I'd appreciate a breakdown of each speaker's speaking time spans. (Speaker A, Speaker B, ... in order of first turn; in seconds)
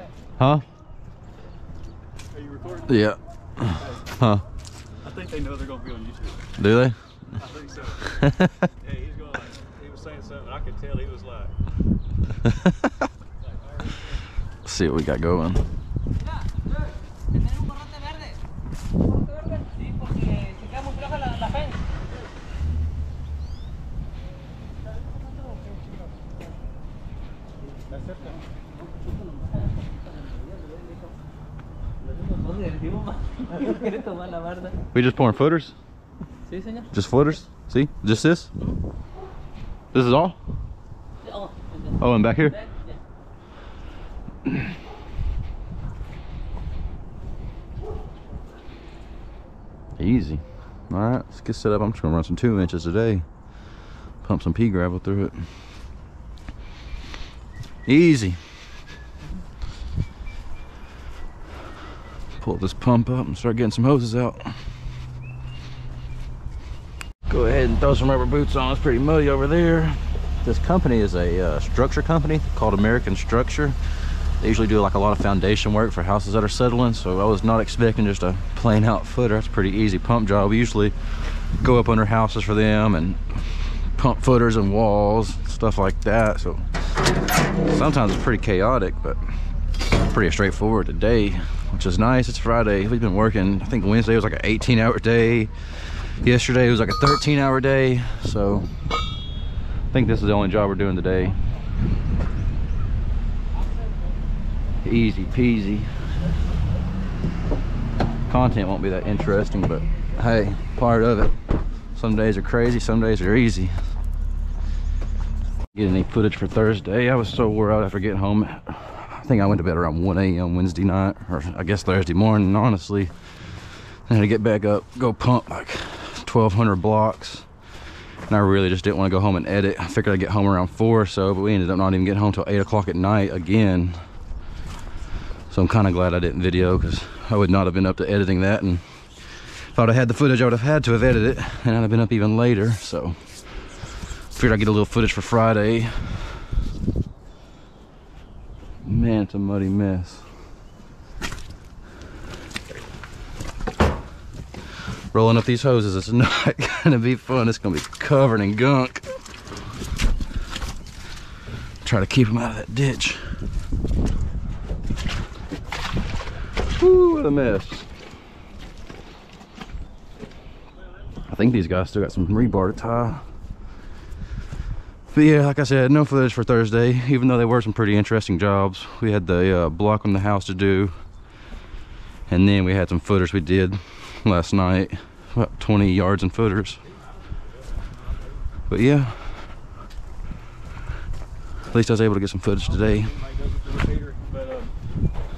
Speaker A: 0.4-0.6, 2.9-4.4, 6.6-7.0, 8.1-8.7, 12.4-12.9, 14.6-15.6, 34.9-35.7, 36.9-38.5, 39.9-40.4, 42.0-42.6, 50.0-53.3, 54.2-55.4, 57.9-58.4, 62.4-64.5, 67.3-73.8, 74.4-80.9, 81.5-83.3, 83.9-86.6, 87.7-89.2, 89.9-95.5, 96.2-98.7, 99.9-101.4, 104.8-105.9, 108.3-111.3, 111.9-113.7, 115.7-123.1, 124.1-127.5, 128.3-134.0, 135.5-138.8, 139.7-143.3, 144.3-146.3, 148.8-150.2, 155.1-159.2, 161.8-163.2, 166.8-167.8, 171.2-173.2, 175.1-180.9, 182.3-186.8, 188.7-189.2, 191.7-193.1
Speaker B: 2.3-3.0, 3.7-4.0, 5.0-6.5, 7.3-8.2, 8.8-11.5, 192.7-194.7
Speaker C: 17.5-18.2, 19.4-21.8, 32.0-34.8, 36.5-36.9, 41.2-41.8